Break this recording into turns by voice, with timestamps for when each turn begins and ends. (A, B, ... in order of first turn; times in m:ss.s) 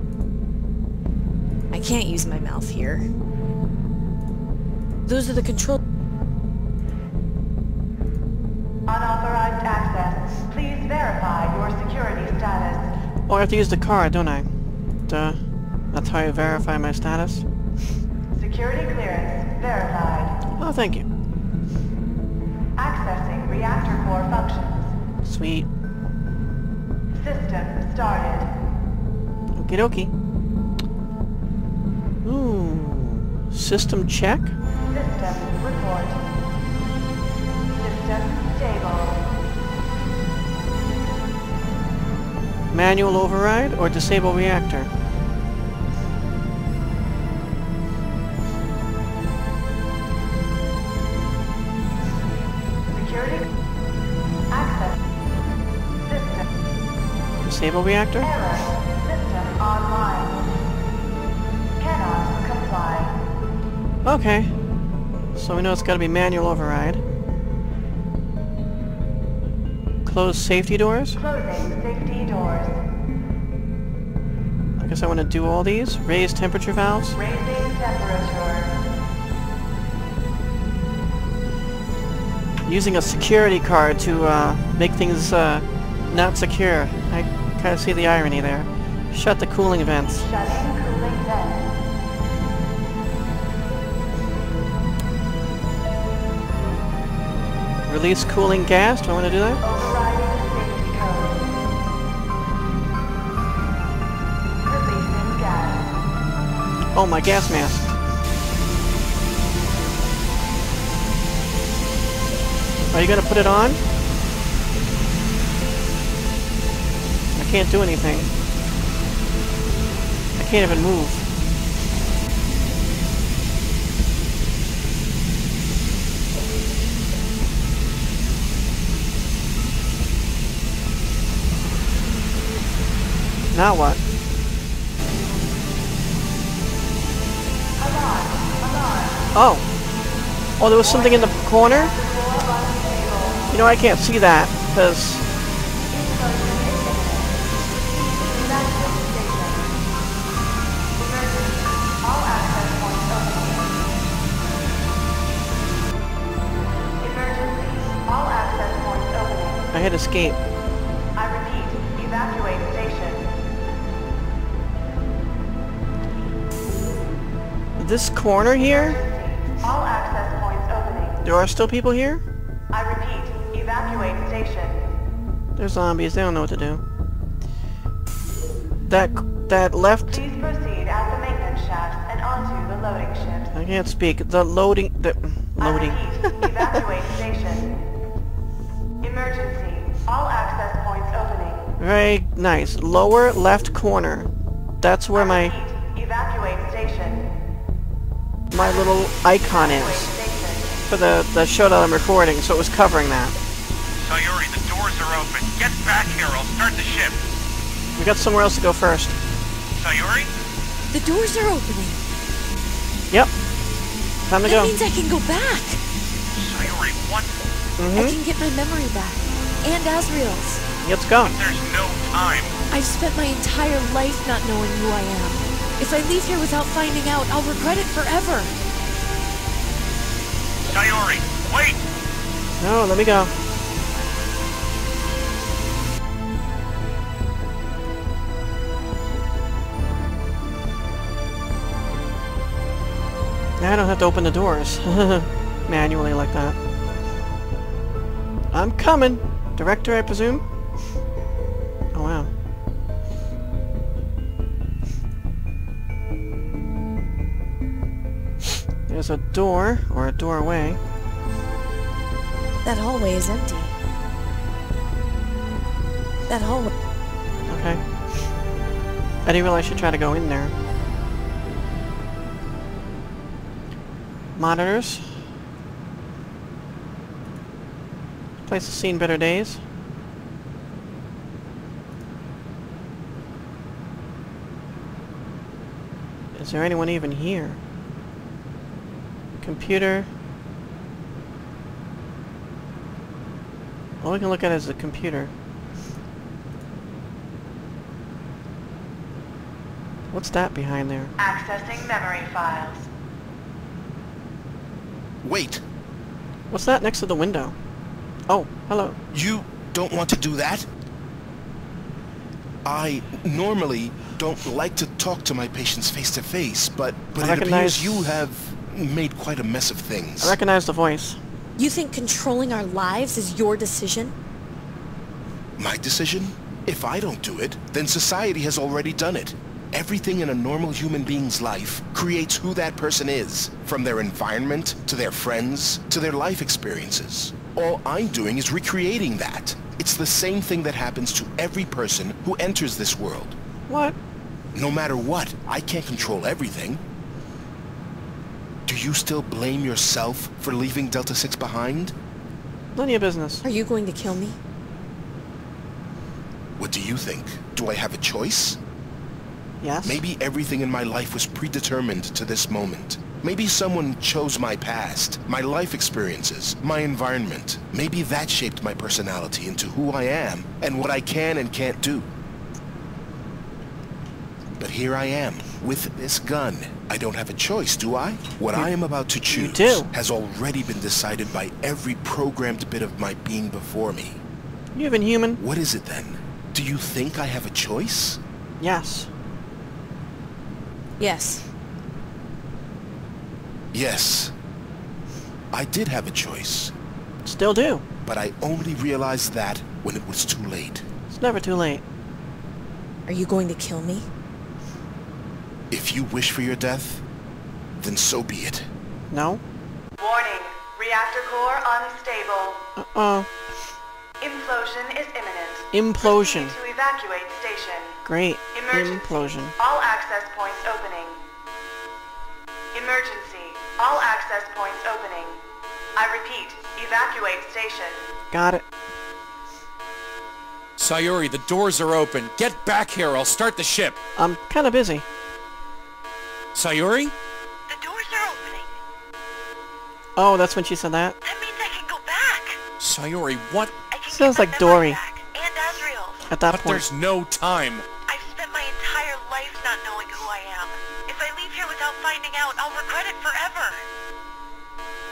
0:01.7-0:03.1 A
0:05.1-0:05.8 A
0:08.9-0:12.9 B
0:13.3-0:14.5 C
0:15.1-0:15.4 C
0:15.9-0:17.5 C
0:18.3-0:20.4 B
0:20.6-0:21.1 C
0:22.8-0:25.0 B
0:25.2-0:25.7 C
0:27.1-0:28.5 B
0:29.6-0:30.1 C
0:32.2-0:34.6 C
0:34.9-0:36.2 B
0:37.8-0:39.3 B
0:42.7-0:44.9 C
0:52.9-0:53.4 B
0:54.5-0:55.0 B
0:56.0-0:56.5 B
0:57.4-0:58.4 C
0:58.2-1:00.5 B
1:01.8-1:03.2 B
1:04.0-1:04.5 C
1:05.4-1:07.0 C
1:10.0-1:11.2 C
1:11.2-1:12.8 B
1:14.8-1:17.2 C
1:17.2-1:18.7 B
1:22.7-1:30.2 C
1:30.2-1:31.6 B
1:37.9-1:39.6 C
1:39.6-1:41.5 B
1:44.6-1:45.9 B
1:47.0-1:47.9 C
1:52.9-1:53.8 C
1:57.4-1:58.3 C
2:00.4-2:01.2 C
2:13.5-2:14.0 C
2:17.8-2:19.2 B
2:19.4-2:19.7 C
2:20.6-2:21.9 C
2:20.7-2:23.5 B
2:23.5-2:25.2 C
2:25.9-2:29.8 B
2:31.0-2:33.9 B
2:37.0-2:39.7 B
2:39.7-2:40.4 C
2:41.2-2:43.3 B
2:47.8-2:49.0 C
2:48.6-2:51.2 B
2:51.2-2:52.2 C
2:52.7-2:54.9 B
2:55.6-2:56.8 C
2:58.9-3:00.2 C
3:00.1-3:03.5 B
3:03.5-3:06.8 C
3:05.6-3:07.8 B
3:09.0-3:11.7 B
3:11.8-3:14.3 C
3:14.8-3:15.6 C
3:15.2-3:17.3 B
3:18.5-3:20.1 C
3:18.6-3:20.8 B
3:20.9-3:23.4 C
3:24.0-3:27.2 D
3:28.0-3:29.2 C
3:29.7-3:30.3 D
3:30.9-3:32.0 A
3:34.3-3:34.7 C
3:34.4-3:35.8 A
3:36.4-3:37.3 D
3:37.8-3:38.2 C
3:37.9-3:40.6 A
3:40.8-3:41.4 C
3:41.2-3:42.6 D
3:42.7-3:48.5 A
3:50.6-3:51.8 D
3:52.6-3:53.3 C
4:03.6-4:06.6 C
4:08.5-4:10.4 C
4:11.9-4:12.3 C
4:18.9-4:20.8 C
4:22.6-4:23.8 A
4:26.3-4:26.7 A
4:27.5-4:27.8 C
4:29.2-4:30.5 C
4:34.4-4:35.2 C
4:38.5-4:39.6 C
4:46.4-4:47.6 C
4:49.4-4:50.1 C
4:54.0-4:55.3 C
5:00.1-5:01.1 C
5:01.2-5:02.9 B
5:05.2-5:05.6 E
5:06.5-5:07.6 C
5:08.3-5:09.0 C
5:09.1-5:10.7 E
5:12.6-5:20.4 E
5:17.2-5:18.3 C
5:20.2-5:21.2 C
5:21.6-5:24.2 A
5:25.6-5:43.4 E
5:43.7-5:44.0 C
5:44.5-5:46.8 E
5:48.7-5:51.9 E
5:52.8-5:53.4 C
5:53.4-5:54.4 A
5:56.6-5:58.6 E
5:59.6-6:00.0 C
5:59.8-6:12.1 E
6:14.6-6:24.2 E
6:19.2-6:19.9 C
6:24.8-6:25.4 C
6:25.4-6:28.2 E
6:28.6-6:29.1 C
6:31.0-6:31.4 A
6:33.7-6:34.3 E
6:35.5-6:36.7 E
6:37.2-6:37.8 C
6:38.0-6:40.9 E
6:41.1-6:41.8 C
6:43.1-6:44.1 A
6:45.7-6:47.0 E
6:47.8-6:48.7 E
6:49.1-6:49.4 C
6:50.0-6:52.6 B
6:52.8-6:53.3 C
6:54.2-6:58.0 B
6:55.7-6:56.6 C
6:58.0-6:59.5 C
6:58.5-7:01.2 B
7:02.7-7:05.4 B
7:06.0-7:08.0 B
7:08.3-7:08.7 C
7:10.8-7:14.0 F
7:14.2-7:15.1 C
7:16.6-7:17.2 F
7:17.7-7:18.7 G
7:20.2-7:21.2 C
7:21.2-7:22.6 G
7:22.8-7:23.7 F
7:23.9-7:26.2 G
7:24.1-7:25.0 C
7:26.3-7:26.8 C
7:26.5-7:27.9 F
7:28.1-7:33.8 G